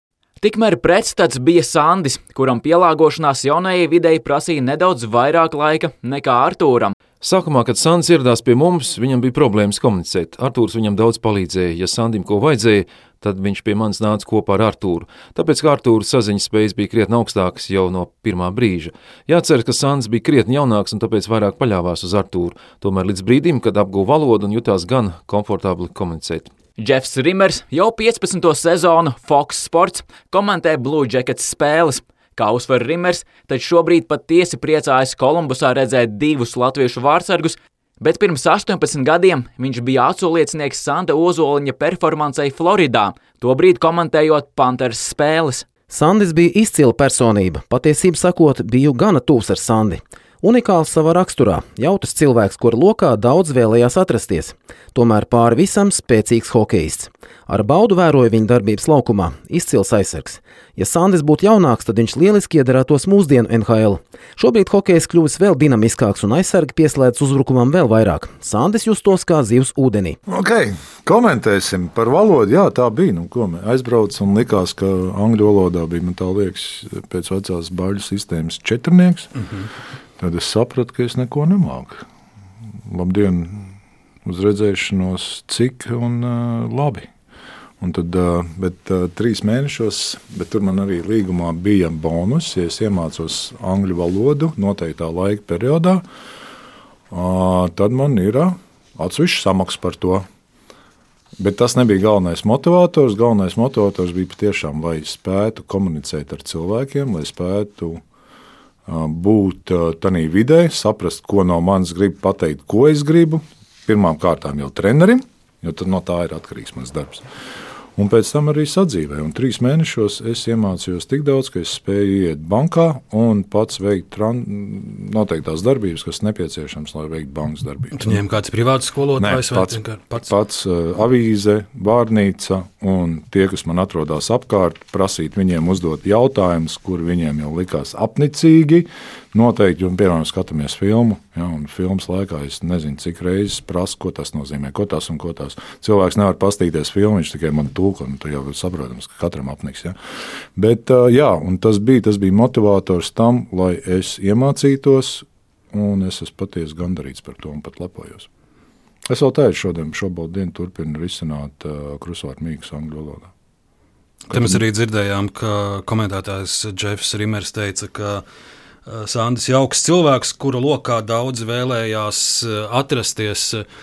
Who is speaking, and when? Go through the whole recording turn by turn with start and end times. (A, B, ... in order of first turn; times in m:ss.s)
0:00.4-0:07.0 A
0:07.2-0:26.5 B
0:26.8-0:45.7 A
0:45.9-1:10.2 C
1:10.3-1:19.3 D
1:19.4-1:19.7 E
1:20.2-1:22.0 D
1:22.8-1:27.1 D
1:27.8-1:36.0 D
1:37.1-1:40.3 D
1:41.4-1:48.0 D
1:48.9-1:57.2 D
1:58.0-2:08.2 D
2:07.9-2:10.3 E
2:09.2-2:30.0 D
2:30.6-2:38.3 D
2:39.1-2:43.3 D
2:44.3-2:44.6 D
2:44.3-2:48.2 E
2:48.9-2:53.6 E